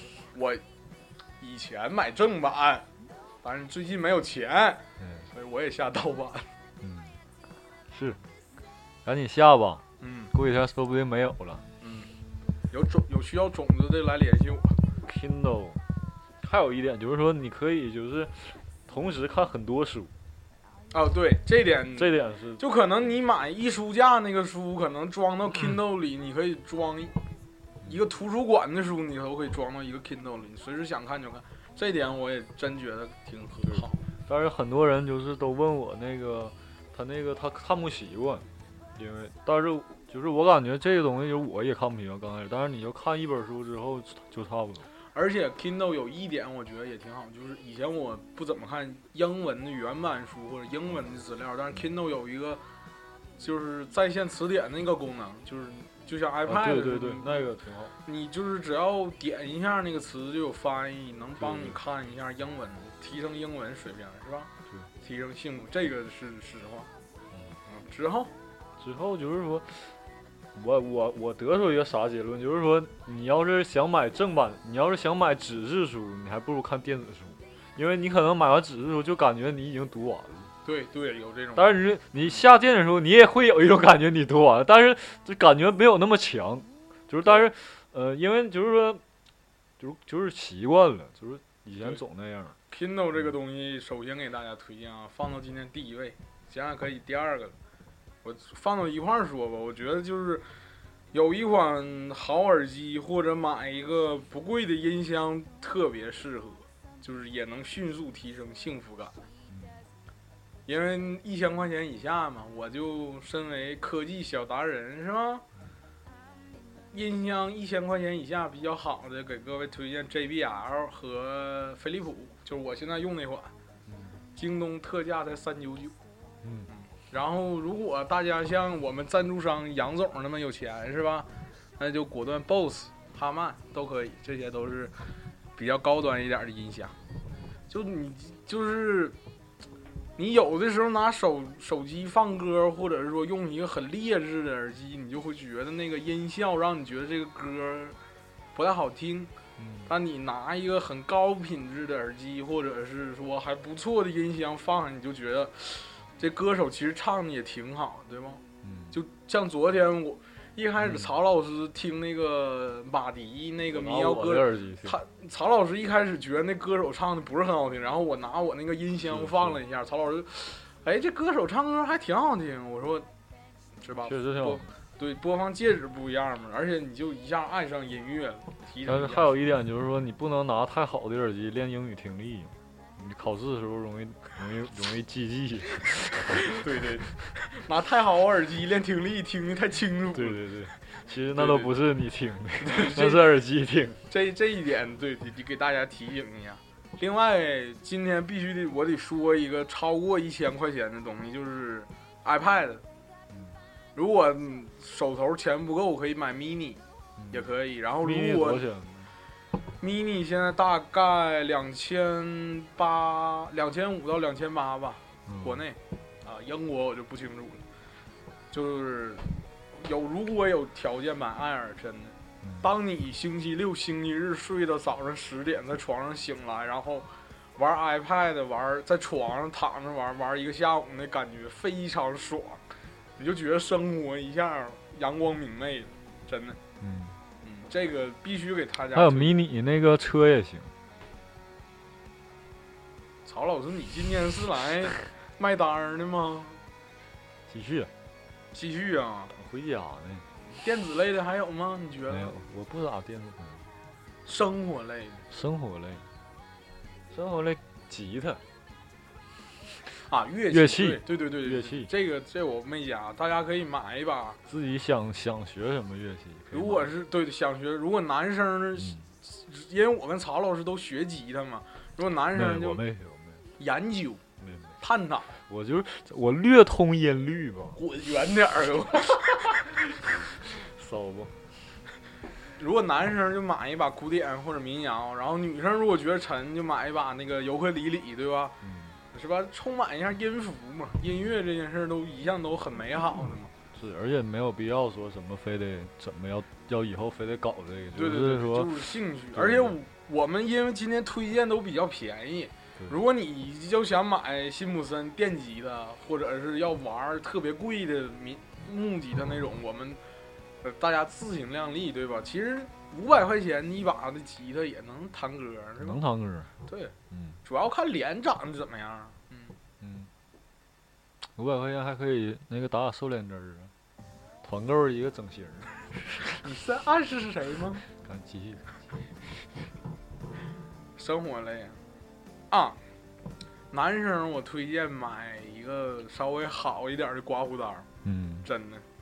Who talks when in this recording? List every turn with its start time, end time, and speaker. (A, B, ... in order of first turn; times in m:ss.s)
0:00.3-0:00.6 A
0:01.4-0:02.8 A
0:03.4-0:06.5 A
0:05.0-0:05.3 B
0:06.8-0:07.2 B
0:07.9-0:08.2 B
0:09.0-0:11.6 B
0:10.0-0:10.3 A
0:11.8-0:12.1 A
0:12.7-0:14.8 A
0:15.0-0:15.8 B
0:16.4-0:20.1 B
0:20.9-0:27.1 A
0:21.9-0:22.6 B
0:27.8-0:34.0 A
0:33.7-0:44.9 B
0:45.1-0:52.6 A
0:53.4-0:57.4 A
0:56.4-0:57.9 B
0:58.0-1:04.5 A
1:01.4-1:01.8 B
1:05.0-1:06.9 A
1:07.7-1:08.3 A
1:08.8-1:10.0 B
1:10.5-1:20.5 B
1:20.6-1:21.8 A
1:21.6-1:29.0 B
1:29.8-1:32.6 B
1:32.7-1:37.5 A
1:38.2-1:40.5 A
1:41.1-1:49.1 A
1:49.5-1:49.8 B
1:50.6-1:55.4 A
1:56.9-2:03.5 A
2:03.9-2:04.1 B
2:04.3-2:05.9 A
2:06.4-2:06.7 B
2:06.7-2:14.9 A
2:15.6-2:17.0 A
2:17.7-2:19.2 A
2:20.2-2:28.0 A
2:28.5-2:29.3 A
2:29.6-2:29.9 B
2:29.9-2:53.1 A
2:38.6-2:38.9 B
2:40.8-2:41.1 B
2:43.7-2:45.0 B
2:49.0-2:49.6 B
2:53.8-2:59.3 A
2:54.0-2:54.7 B
2:58.8-3:06.6 B
3:06.5-3:10.5 A
3:10.1-3:14.0 B
3:11.3-3:11.7 A
3:12.6-3:13.3 A
3:14.1-3:22.8 A
3:23.3-3:23.6 B
3:23.9-3:26.8 A
3:27.2-3:29.1 B
3:27.3-3:28.6 A
3:29.8-3:37.6 A
3:35.3-3:35.6 B
3:38.5-3:52.6 A
3:53.2-3:56.6 A
3:56.8-3:57.2 B
3:57.4-3:59.4 A
3:58.9-4:00.7 B
4:03.2-4:06.6 A
4:07.5-4:07.9 B
4:08.5-4:09.3 A
4:09.3-4:10.2 B
4:10.5-4:12.3 A
4:12.1-4:13.7 B
4:14.2-4:15.2 A
4:15.3-4:16.0 B
4:17.1-4:18.4 B
4:20.1-4:24.4 A
4:20.5-4:21.9 B
4:24.5-4:26.9 B
4:26.5-4:32.8 A
4:28.8-4:29.1 B
4:32.3-4:33.4 B
4:33.6-4:34.2 A
4:34.4-4:34.8 B
4:34.8-4:35.3 A
4:35.4-4:37.8 B
4:37.7-4:39.6 A
4:40.4-4:41.5 B
4:42.6-4:48.5 A
4:48.6-4:49.0 B
4:49.1-4:53.5 A
4:53.7-4:59.8 B
4:57.9-5:10.0 A
5:10.6-5:16.0 A
5:15.8-5:16.5 B
5:16.6-5:19.5 A
5:17.1-5:17.4 B
5:19.8-5:20.1 B
5:21.4-5:23.7 B
5:24.4-5:25.7 B
5:26.4-5:27.8 A
5:28.0-5:28.7 B
5:31.0-5:31.8 A
5:32.5-5:32.8 A
5:33.7-5:37.9 A
5:38.0-5:38.5 B
5:38.4-5:38.8 A